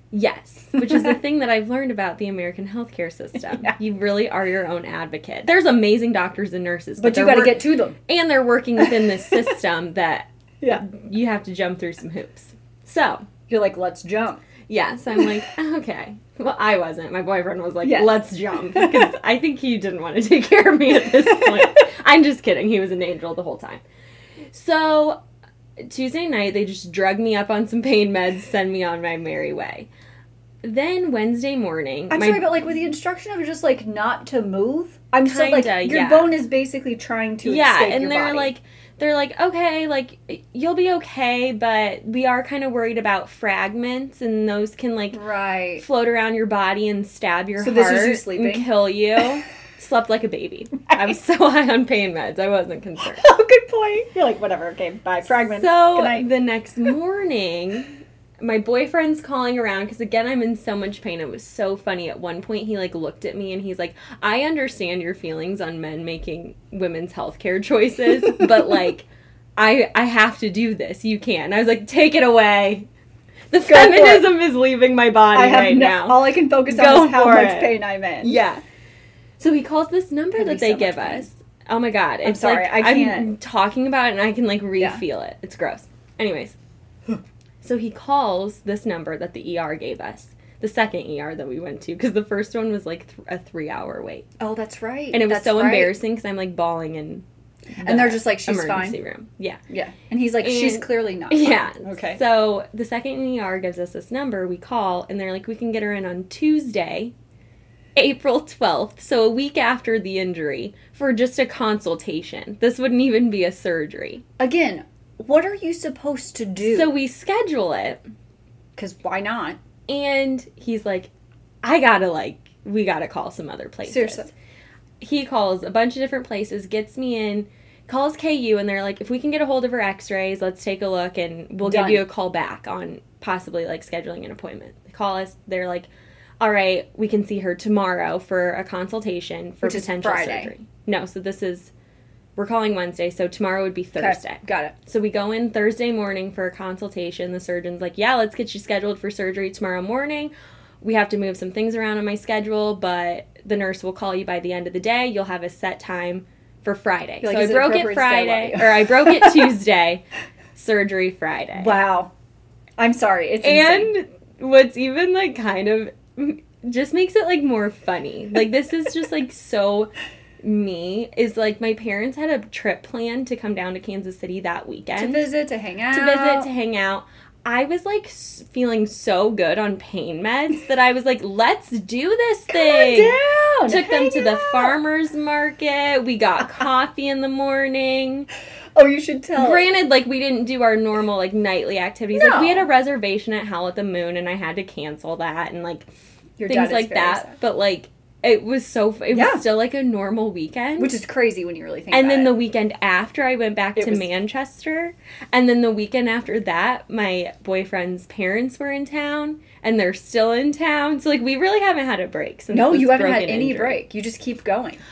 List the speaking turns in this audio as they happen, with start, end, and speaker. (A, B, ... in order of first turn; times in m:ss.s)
0:00.1-0:13.2 A
0:00.8-0:01.1 B
0:07.0-0:08.0 B
0:08.8-0:09.5 B
0:13.5-0:14.4 B
0:14.7-0:23.8 A
0:17.8-0:18.1 B
0:18.7-0:19.1 B
0:21.2-0:21.7 B
0:24.5-0:25.2 A
0:25.9-0:29.9 A
0:30.6-0:32.5 A
0:32.1-0:38.5 B
0:35.2-0:36.3 A
0:37.4-0:45.2 A
0:45.1-0:45.8 B
0:45.8-0:53.2 A
0:47.6-0:48.7 B
0:53.1-0:56.3 B
0:55.4-1:12.9 A
1:08.1-1:08.8 B
1:13.5-1:18.6 A
1:13.7-1:14.3 B
1:15.3-1:18.4 B
1:19.4-1:26.5 A
1:20.3-1:21.3 B
1:22.2-1:23.3 B
1:27.6-1:34.3 A
1:34.4-1:35.9 B
1:35.1-1:37.2 A
1:37.8-1:39.6 A
1:37.8-1:39.0 B
1:39.7-1:42.2 B
1:40.4-1:47.1 A
1:48.0-1:54.2 A
1:54.4-1:56.9 B
1:56.6-1:58.0 A
1:58.8-1:59.6 B
1:59.9-2:01.1 A
2:01.6-2:04.3 A
2:03.8-2:04.3 B
2:05.0-2:15.9 A
2:11.6-2:12.0 B
2:16.4-2:21.7 A
2:19.6-2:20.5 B
2:22.4-2:40.0 A
2:24.0-2:24.8 B
2:37.2-2:39.5 B
2:40.5-2:41.8 A
2:41.6-2:42.1 B
2:42.8-2:43.9 B
2:43.4-2:49.9 A
2:50.4-2:55.2 A
2:55.0-2:56.5 B
2:55.9-3:08.3 A
3:02.5-3:04.7 B
3:08.7-3:09.6 B
3:09.4-3:15.9 A
3:12.1-3:12.7 B
3:16.4-3:17.4 B
3:16.5-3:20.9 A
3:19.1-3:19.4 B
3:20.8-3:22.3 B
3:21.9-3:33.8 A
3:23.8-3:24.0 B
3:32.5-3:34.8 B